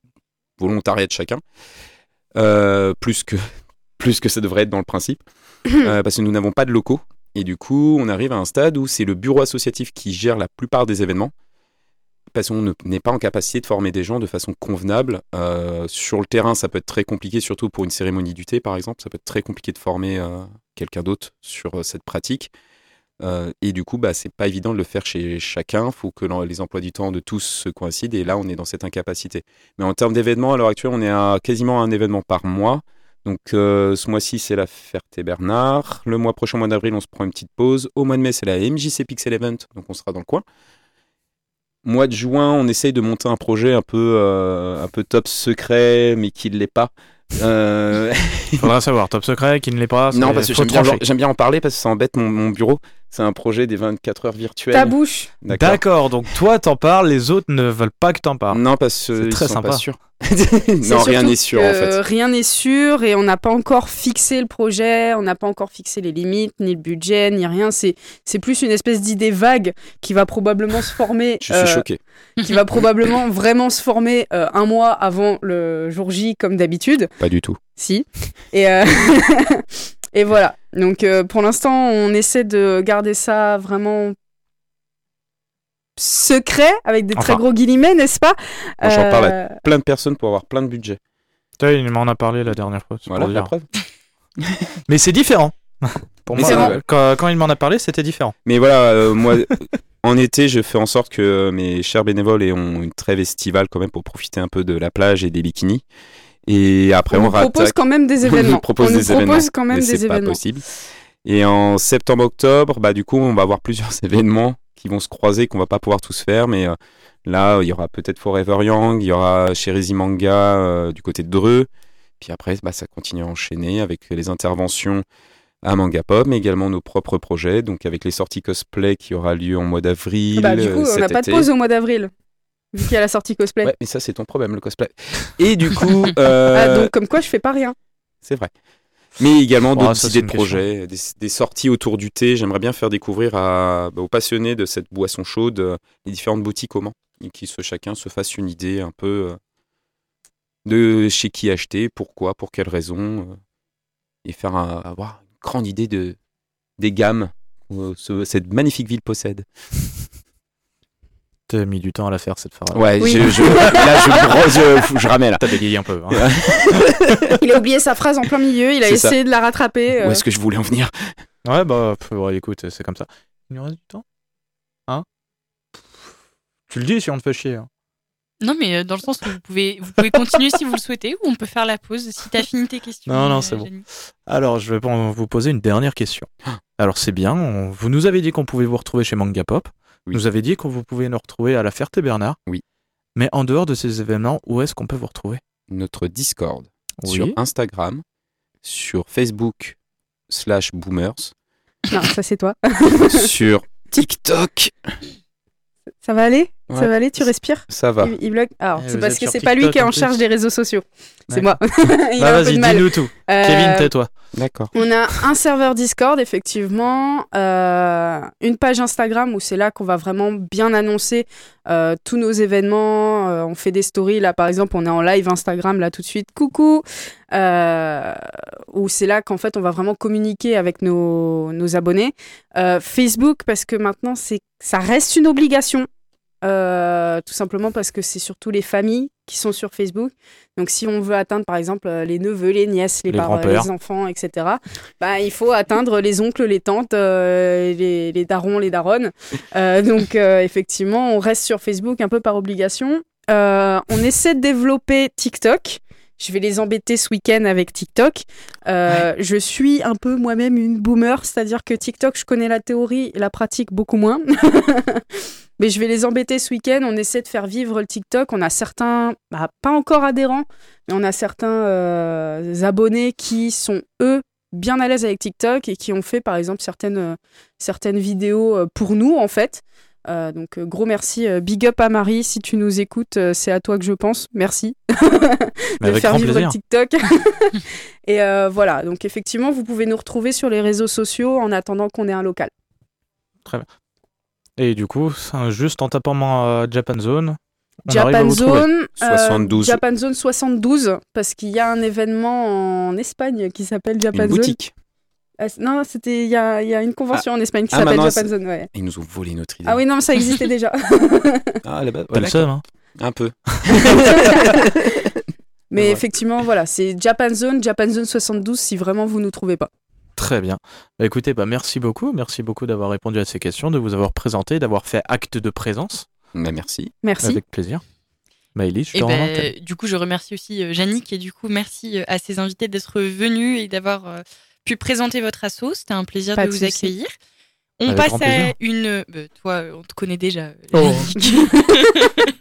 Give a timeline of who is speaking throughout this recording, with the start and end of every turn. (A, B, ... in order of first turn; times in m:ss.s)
0:00.6-0:01.4 A
0:02.4-0:03.4 A
0:04.0-0:05.2 A
0:05.8-0:11.3 A
0:12.3-0:22.5 A
0:23.2-0:40.4 A
0:41.8-0:48.7 A
0:48.6-0:51.0 B
0:50.1-0:56.3 A
0:54.7-0:55.3 C
0:55.5-0:59.8 B
0:58.5-1:02.0 A
1:00.8-1:17.2 C
1:11.4-1:12.0 A
1:17.2-1:17.6 A
1:17.7-1:24.2 C
1:26.0-1:29.6 C
1:27.2-1:27.4 B
1:28.8-1:31.0 A
1:31.6-1:33.5 B
1:33.1-1:33.7 A
1:34.9-1:38.4 B
1:36.3-1:36.8 A
1:36.4-1:36.8 C
1:38.4-1:39.5 A
1:40.0-1:45.8 A
1:46.5-1:50.6 A
1:47.1-1:50.6 C
1:51.2-2:01.7 A
2:02.2-2:05.0 A
2:05.6-2:11.5 A
2:10.3-2:12.1 C
2:12.7-2:13.7 C
2:13.6-2:16.9 A
2:16.5-2:17.8 C
2:18.2-2:18.5 A
2:19.2-2:29.4 A
2:19.6-2:20.6 B
2:30.6-2:33.4 A
2:34.2-2:36.2 A
2:36.8-2:39.5 A
2:41.5-2:43.7 B
2:42.7-2:46.9 A
2:43.0-2:44.8 C
2:45.4-2:46.3 B
2:47.4-2:50.2 C
2:48.8-2:49.2 A
2:50.0-2:51.2 A
2:51.4-2:54.0 B
2:56.7-2:57.7 B
2:58.4-3:03.8 D
3:03.1-3:12.4 B
3:13.2-3:15.4 B
3:15.7-3:18.0 A
3:17.0-3:17.4 B
3:18.6-3:19.8 A
3:20.3-3:21.3 A
3:21.9-3:23.3 C
3:23.1-3:25.0 A
3:26.0-3:34.0 C
3:26.7-3:28.1 A
3:28.8-3:30.2 B
3:31.3-3:31.6 B
3:32.2-3:34.3 B
3:34.3-3:34.7 A
3:34.7-3:55.9 C
3:56.4-4:25.0 C
4:03.1-4:03.7 B
4:25.6-4:52.5 C
4:45.8-4:46.6 B
4:54.6-4:58.7 B
4:57.9-5:04.6 C
4:59.0-4:59.8 A
5:04.1-5:04.7 A
5:05.4-5:08.7 C
5:07.1-5:10.3 A
5:09.6-5:11.6 C
5:11.6-5:14.5 A
5:12.1-5:12.6 B
5:13.8-5:14.6 C
5:15.7-5:19.7 C
5:15.7-5:16.0 A
5:20.2-5:26.1 B
5:26.4-5:26.9 A
5:27.0-5:27.4 C
5:27.2-5:27.8 B
5:28.6-5:29.5 B
5:28.9-5:37.1 D
5:36.4-5:36.9 C
5:37.8-5:42.0 D
5:37.9-5:38.6 B
5:40.7-5:41.1 B
5:41.2-5:41.9 C